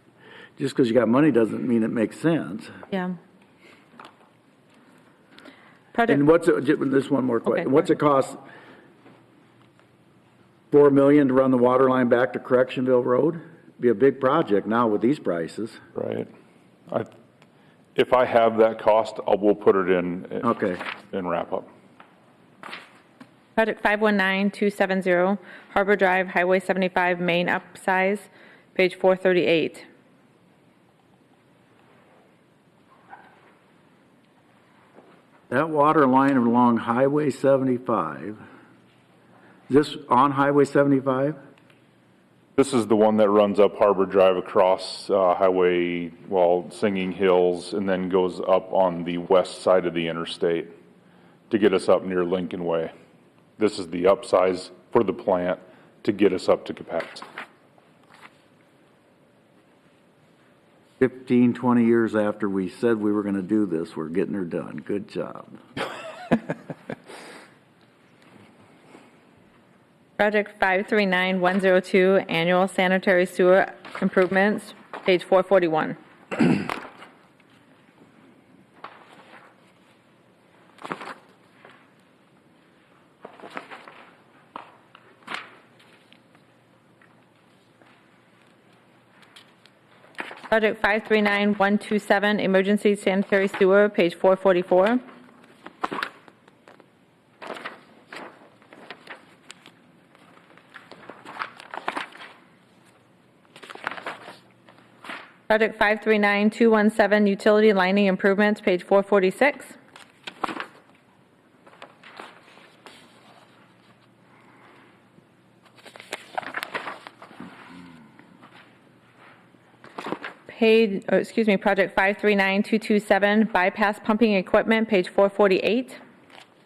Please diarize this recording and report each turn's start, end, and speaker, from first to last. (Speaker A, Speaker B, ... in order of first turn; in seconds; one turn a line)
Speaker A: 0.6-2.7
Speaker B: 2.9-3.2
Speaker B: 5.9-6.2
Speaker A: 6.1-8.4
Speaker B: 7.5-7.7
Speaker A: 10.7-15.8
Speaker C: 15.9-16.3
Speaker C: 17.9-20.6
Speaker A: 20.4-20.8
Speaker C: 21.1-21.7
Speaker B: 23.6-29.9
Speaker A: 35.5-38.4
Speaker A: 39.7-41.4
Speaker C: 42.6-50.7
Speaker C: 51.5-52.9
Speaker C: 53.6-57.3
Speaker A: 61.0-65.6
Speaker B: 70.2-76.7
Speaker B: 90.5-95.0
Speaker B: 105.5-109.8
Speaker B: 120.5-126.0